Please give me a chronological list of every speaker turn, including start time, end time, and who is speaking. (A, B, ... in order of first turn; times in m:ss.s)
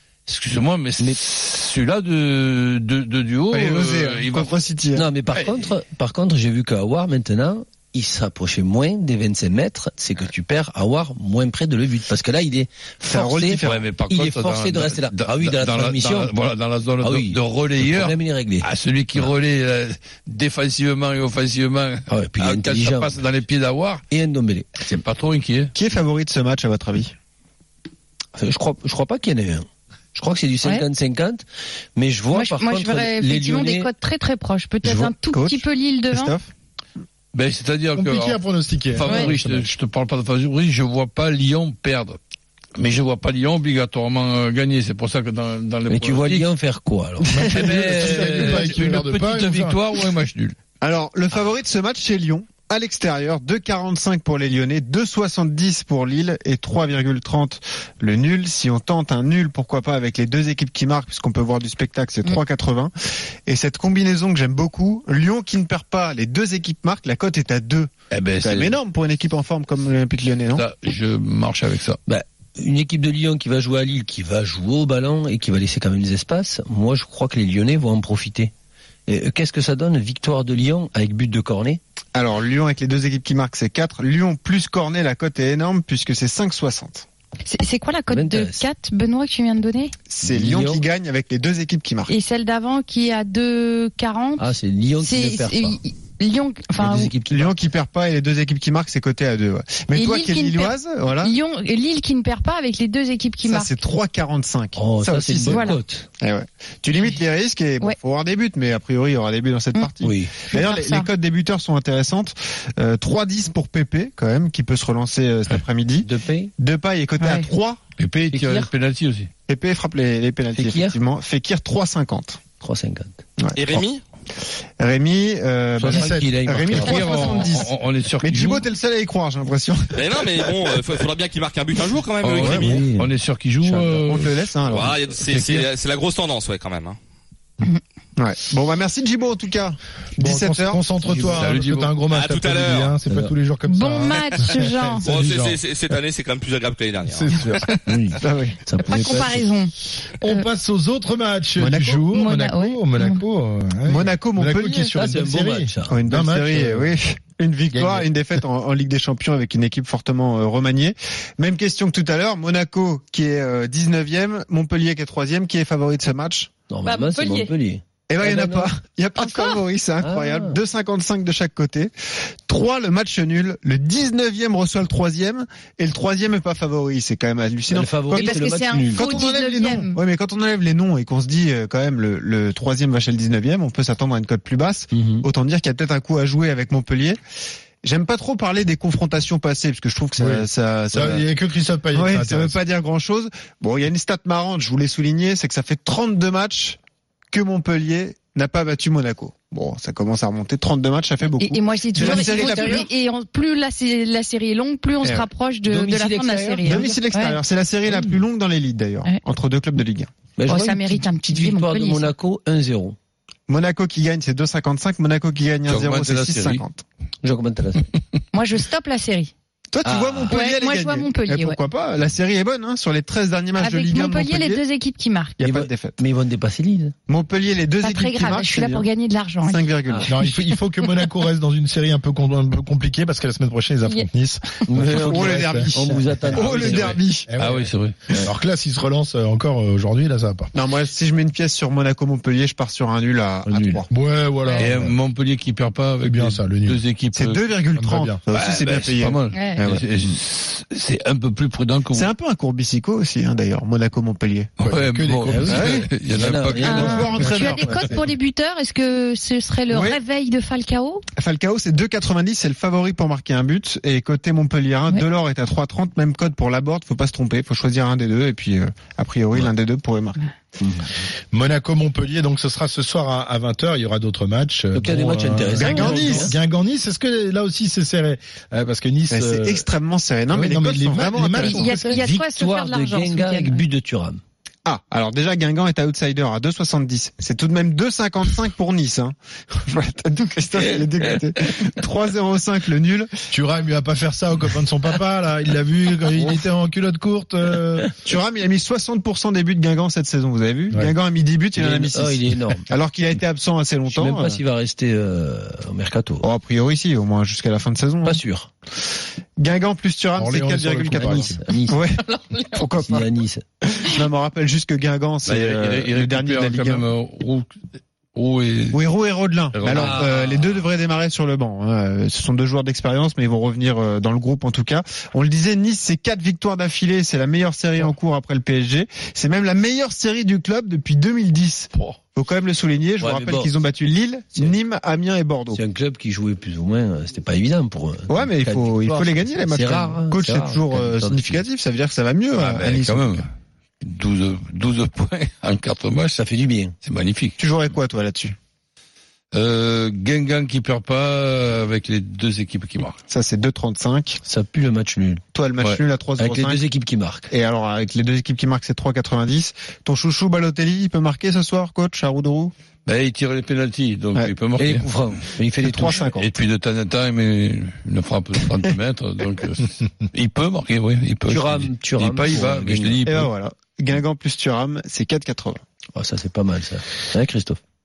0:00.3-0:04.6 A
0:03.5-0:05.0 B
0:04.9-0:16.3 C
0:13.0-0:13.9 B
0:13.6-0:24.0 A
0:17.0-0:18.7 C
0:22.1-0:23.2 C
0:24.1-0:24.9 C
0:24.9-0:25.7 A
0:25.7-0:27.1 B
0:28.4-0:31.4 C
0:32.0-0:33.9 C
0:32.3-0:36.3 D
0:34.8-0:35.1 C
0:35.3-0:36.5 B
0:37.3-0:38.4 A
0:37.9-0:39.7 E
0:38.9-0:42.2 A
0:39.1-0:39.3 D
0:42.8-0:46.5 A
0:45.9-0:48.6 C
0:47.3-0:49.8 E
0:47.5-0:50.6 A
0:50.8-1:02.9 B
1:03.4-1:10.6 B
1:08.1-1:08.7 A
1:10.5-1:12.0 A
1:12.0-1:18.5 C
1:19.1-1:21.8 C
1:22.1-1:27.0 B
1:27.4-1:29.9 D
1:28.1-1:28.6 C
1:30.1-1:32.1 B
1:30.2-1:30.8 C
1:32.1-1:37.1 D
1:34.4-1:35.8 C
1:36.8-1:37.6 C
1:37.1-1:41.3 B
1:39.9-1:43.8 D
1:43.4-1:56.1 B
1:44.8-1:46.0 C
1:45.5-1:45.8 D
1:50.0-1:50.3 C
1:50.5-1:51.1 D
1:56.0-1:56.5 C
1:56.6-1:57.8 B
1:57.2-1:57.5 D
1:58.0-1:59.3 A
1:58.3-1:58.7 C
1:59.5-2:02.4 B
2:00.5-2:01.0 C
2:02.6-2:03.2 C
2:03.4-2:03.8 B
2:03.6-2:04.0 F
2:04.8-2:10.4 B
2:05.8-2:07.1 C
2:05.8-2:06.5 E
2:06.7-2:08.7 A
2:09.9-2:12.8 F
2:12.2-2:15.7 A
2:12.4-2:14.0 C
2:14.0-2:15.0 B
2:14.7-2:17.0 F
2:18.2-2:20.8 B
2:20.2-2:25.6 E
2:21.0-2:21.5 C
2:21.3-2:21.9 A
2:22.1-2:23.0 F
2:23.1-2:23.3 C
2:23.6-2:25.0 D
2:25.0-2:27.7 F
2:27.0-2:27.7 E
2:27.8-2:29.5 C
2:28.2-2:28.6 B
2:28.8-2:29.7 D
2:30.2-2:36.9 E
2:31.6-2:32.1 B
2:32.1-2:33.2 D
2:33.9-2:34.9 B
2:34.9-2:36.0 C
2:35.9-2:46.5 B
2:37.7-2:38.1 E
2:46.7-2:48.7 C
2:46.8-2:47.5 D
2:48.1-2:51.9 B
2:49.2-2:49.6 D
2:50.0-2:50.6 C
2:52.5-3:07.2 B
2:57.7-2:59.1 C
2:58.1-3:00.0 D
3:04.9-3:05.2 C
3:07.8-3:11.2 B
3:10.2-3:12.6 E
3:11.9-3:16.8 B
3:17.3-3:22.9 B
3:21.4-3:27.4 D
3:25.0-3:30.1 B
3:25.8-3:26.7 C
3:30.4-3:33.0 C
3:30.5-3:32.1 D
3:33.5-3:36.8 B
3:35.6-3:36.6 A
3:37.2-3:37.9 C
3:38.3-3:39.3 D
3:39.7-3:44.6 B
3:39.8-3:40.3 C
3:40.3-3:41.6 D
3:43.6-3:45.4 D
3:45.4-3:46.9 C
3:45.4-3:46.0 B
3:47.1-3:48.9 B
3:47.8-3:49.7 D
3:49.4-3:50.1 B
3:50.0-3:55.8 E
3:54.7-3:57.0 C
3:55.0-3:57.3 B
3:56.3-3:58.0 A
3:57.2-3:57.6 E
3:58.2-4:00.5 E
4:00.5-4:03.9 B
4:03.9-4:04.9 E
4:04.4-4:04.7 D
4:04.6-4:07.4 A
4:06.0-4:06.8 E
4:07.1-4:09.9 B
4:07.7-4:08.2 E
4:08.3-4:12.1 A
4:09.3-4:09.6 D
4:11.9-4:14.5 B
4:14.6-4:15.8 E
4:14.6-4:17.2 A
4:15.2-4:17.3 C
4:15.5-4:15.9 B
4:16.6-4:18.0 B
4:16.6-4:21.0 D
4:19.7-4:20.0 B
4:21.2-4:30.2 B
4:30.6-4:31.0 C
4:31.3-4:39.7 E
4:34.7-4:36.4 C
4:35.6-4:36.3 B
4:39.1-4:41.9 B
4:40.3-4:42.0 E
4:41.4-4:43.6 D
4:41.8-4:44.2 C
4:44.6-4:49.1 B
4:49.6-4:53.1 B
4:53.3-4:57.9 E
4:58.0-5:04.4 B
5:01.6-5:02.6 C
5:03.9-5:06.3 C
5:06.2-5:08.2 B
5:08.0-5:08.5 C
5:09.4-5:11.9 B
5:10.2-5:11.4 E
5:10.9-5:11.8 C
5:12.0-5:12.7 D
5:12.5-5:13.1 B
5:12.8-5:13.4 C
5:13.6-5:16.9 B
5:15.2-5:17.5 A
5:18.1-5:18.8 A
5:18.7-5:35.6 B
5:19.5-5:20.0 A
5:19.7-5:20.6 C
5:31.7-5:32.0 A
5:33.0-5:33.5 C
5:35.5-5:41.4 C
5:38.1-5:43.2 B
5:42.3-5:43.3 A
5:43.8-5:46.2 A
5:46.2-5:46.7 C
5:46.8-5:47.4 A
5:47.4-5:48.3 B
5:49.3-5:53.0 A
5:53.1-5:54.2 B
5:54.2-5:55.2 C
5:55.3-5:56.6 B
5:56.2-5:57.3 C
5:57.3-6:02.5 B
6:02.8-6:05.0 A
6:04.6-6:06.0 C
6:05.6-6:06.4 B
6:06.1-6:13.3 A
6:11.3-6:13.0 C
6:13.0-6:15.6 B
6:15.9-6:17.6 C